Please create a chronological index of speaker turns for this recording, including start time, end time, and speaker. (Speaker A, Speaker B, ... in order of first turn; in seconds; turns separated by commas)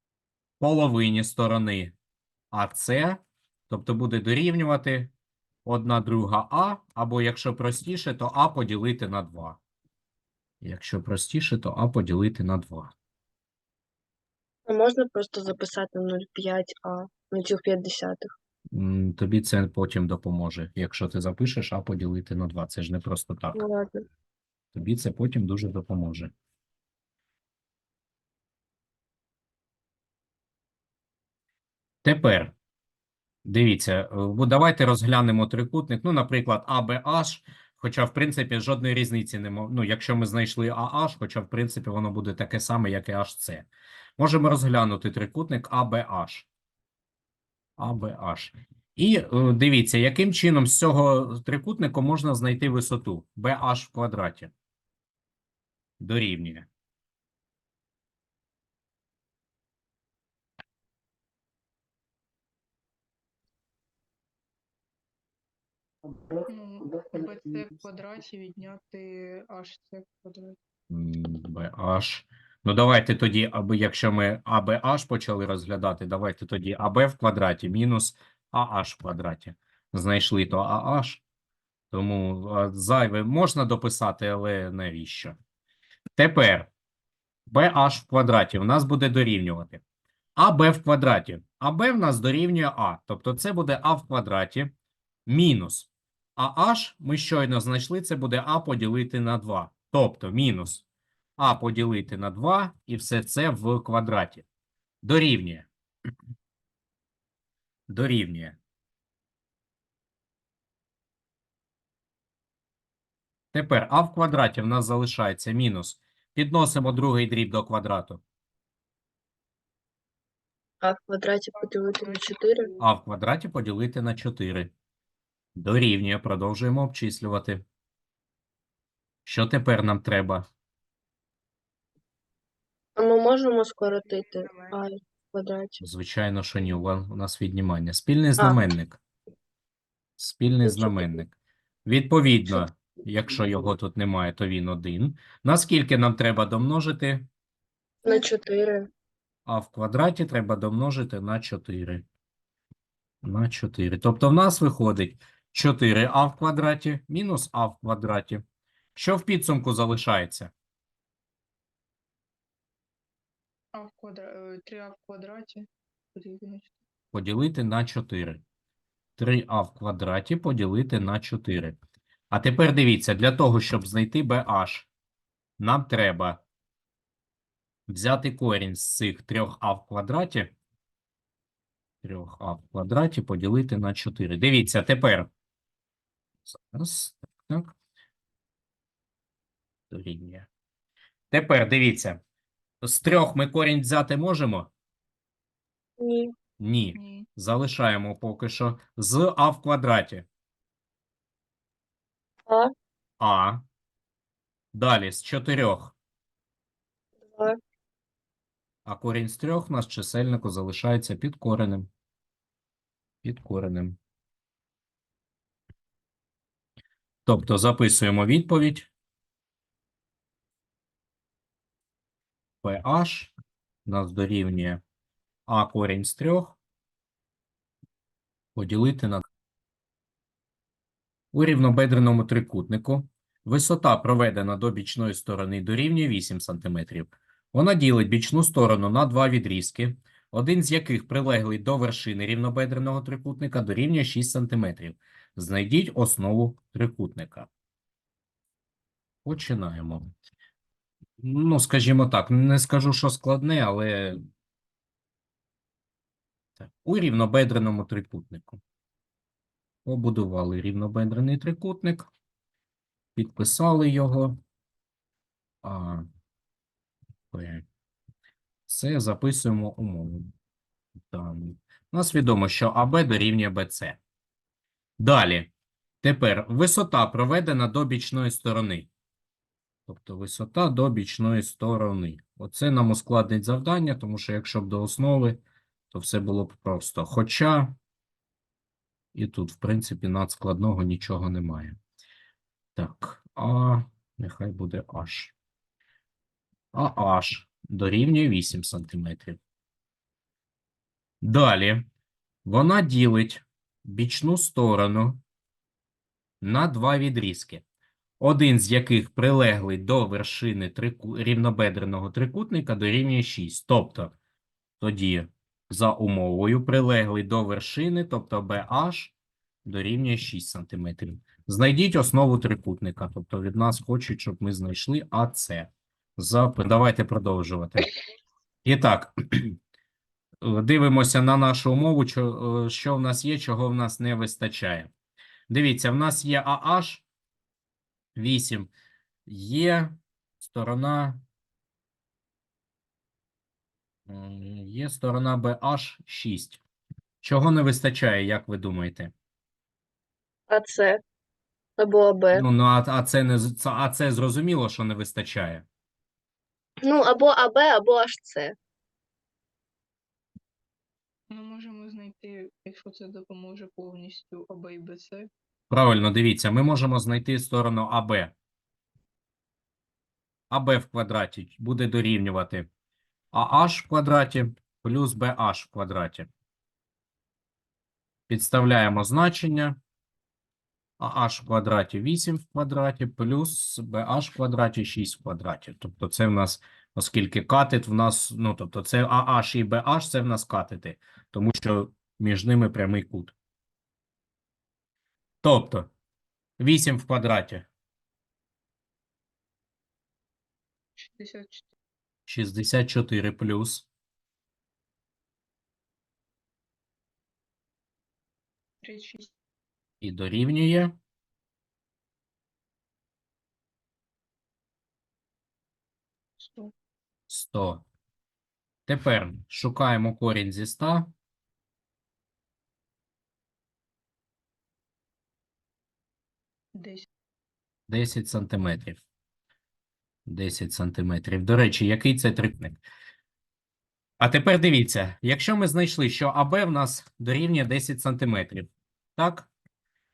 Speaker A: 0.6-1.9, Speaker A: 2.5-5.1, Speaker A: 5.7-9.6, Speaker A: 10.6-12.9, Speaker B: 14.7-18.3, Speaker A: 18.7-23.6, Speaker B: 23.6-24.0, Speaker A: 24.7-26.3, Speaker A: 32.0-32.5, Speaker A: 33.5-43.7, Speaker A: 44.2-46.5, Speaker A: 47.8-54.5, Speaker A: 56.0-56.7, Speaker C: 66.5-70.6, Speaker A: 70.9-81.2, Speaker A: 81.9-85.4, Speaker A: 86.2-86.7, Speaker A: 87.5-89.8, Speaker A: 90.4-94.7, Speaker A: 95.3-100.8, Speaker A: 101.4-104.5, Speaker A: 105.0-105.7, Speaker A: 107.9-108.6, Speaker A: 113.5-118.2, Speaker B: 120.8-122.7, Speaker C: 121.5-122.8, Speaker A: 122.8-124.7, Speaker A: 125.5-127.7, Speaker A: 129.2-130.5, Speaker B: 133.0-135.8, Speaker C: 133.9-134.8, Speaker A: 135.8-139.0, Speaker A: 140.2-141.3, Speaker B: 140.7-141.2, Speaker A: 141.8-147.3, Speaker B: 148.0-148.9, Speaker A: 149.5-152.1, Speaker A: 153.2-158.4, Speaker A: 158.9-160.5, Speaker C: 163.7-166.8, Speaker A: 167.1-168.4, Speaker A: 169.2-171.8, Speaker A: 172.3-174.9, Speaker A: 175.6-176.4, Speaker A: 177.9-180.5, Speaker A: 182.0-185.3, Speaker A: 186.5-187.8, Speaker A: 189.9-190.5, Speaker A: 191.3-192.2, Speaker A: 192.8-194.7, Speaker B: 196.0-196.3, Speaker A: 196.6-200.3, Speaker C: 196.9-197.3, Speaker A: 203.2-203.6, Speaker A: 204.7-205.9, Speaker B: 207.3-207.6, Speaker A: 208.8-211.9, Speaker A: 213.2-214.0, Speaker A: 217.2-218.9, Speaker A: 222.6-223.3, Speaker A: 223.9-224.8, Speaker A: 225.5-226.6, Speaker A: 228.6-229.2, Speaker A: 231.3-247.5, Speaker A: 249.2-250.1, Speaker A: 251.2-254.2, Speaker A: 256.6-258.6, Speaker A: 259.9-262.1, Speaker A: 263.1-264.4, Speaker A: 265.6-266.1, Speaker A: 267.3-267.6, Speaker A: 268.7-270.3, Speaker A: 271.1-274.0, Speaker A: 275.0-275.5, Speaker A: 276.0-278.9, Speaker A: 279.9-287.8, Speaker A: 289.1-291.8, Speaker A: 292.8-295.3, Speaker A: 296.7-299.4, Speaker A: 301.2-301.9, Speaker A: 302.4-305.2, Speaker A: 306.4-307.6, Speaker A: 308.2-314.1, Speaker A: 314.8-319.1, Speaker A: 319.6-327.9, Speaker A: 328.6-329.6, Speaker A: 330.4-334.9, Speaker A: 335.5-337.0, Speaker A: 338.2-338.7, Speaker A: 339.3-341.2, Speaker A: 344.1-346.6, Speaker A: 347.2-349.1, Speaker B: 350.5-351.0, Speaker B: 351.8-352.5, Speaker A: 352.3-355.7, Speaker B: 356.8-358.6, Speaker C: 361.3-365.3, Speaker A: 365.7-368.3, Speaker A: 370.5-372.7, Speaker A: 373.3-376.3, Speaker A: 378.3-379.8, Speaker A: 381.0-393.4, Speaker A: 395.4-395.9, Speaker A: 396.6-397.7, Speaker C: 401.0-401.7, Speaker A: 402.3-403.9, Speaker C: 408.8-409.3, Speaker A: 410.0-411.0, Speaker C: 416.4-416.7, Speaker A: 417.3-417.9, Speaker A: 418.9-421.1, Speaker C: 426.8-427.1, Speaker A: 427.9-429.0, Speaker A: 430.3-432.8, Speaker A: 434.2-439.5